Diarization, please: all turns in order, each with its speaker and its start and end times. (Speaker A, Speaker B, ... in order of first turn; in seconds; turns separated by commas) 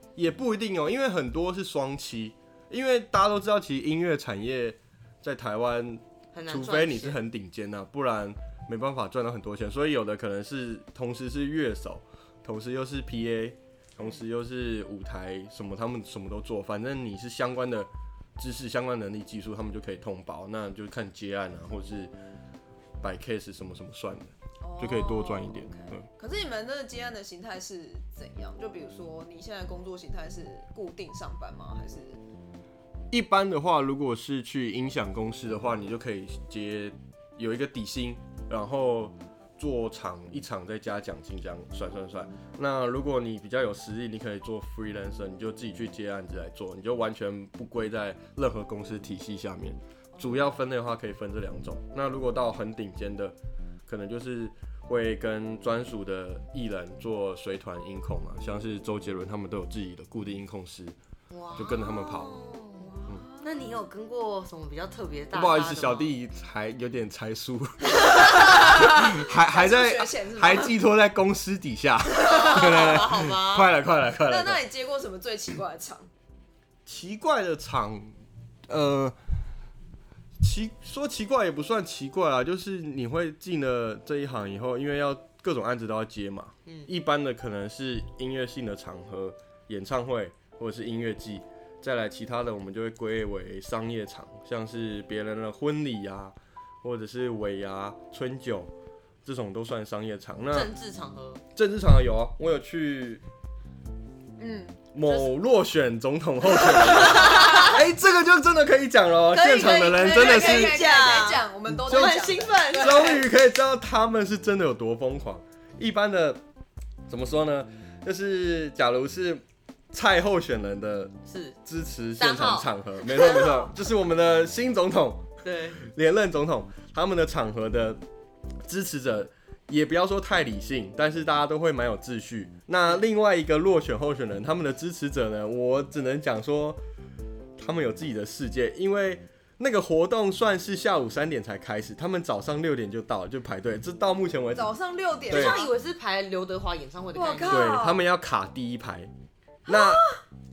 Speaker A: 0.2-22.1, Speaker B: 6.3-7.2, Speaker A: 23.0-26.1, Speaker C: 24.6-32.2, Speaker A: 33.1-53.4, Speaker C: 50.1-50.5, Speaker A: 53.9-61.0, Speaker B: 61.3-66.1, Speaker A: 61.6-62.3, Speaker C: 62.8-63.7, Speaker A: 65.3-74.6, Speaker C: 67.9-70.7, Speaker C: 72.1-73.0, Speaker B: 72.3-73.7, Speaker C: 74.2-76.1, Speaker A: 76.9-78.2, Speaker A: 78.7-79.2, Speaker A: 80.4-98.7, Speaker A: 99.2-100.7, Speaker B: 100.5-101.4, Speaker A: 101.5-103.2, Speaker C: 104.4-104.8, Speaker A: 104.9-111.2, Speaker B: 105.1-105.3, Speaker C: 106.5-107.8, Speaker B: 107.1-107.7, Speaker C: 109.3-113.2, Speaker B: 110.0-113.2, Speaker A: 111.7-116.4, Speaker A: 117.1-128.0, Speaker B: 121.3-121.6, Speaker B: 122.2-122.7, Speaker B: 125.4-125.8, Speaker A: 128.7-136.8, Speaker A: 137.6-144.7, Speaker C: 144.5-145.7, Speaker B: 145.3-147.7, Speaker A: 145.3-145.6, Speaker C: 147.2-148.1, Speaker A: 147.5-149.1, Speaker A: 149.7-150.1, Speaker C: 149.7-150.0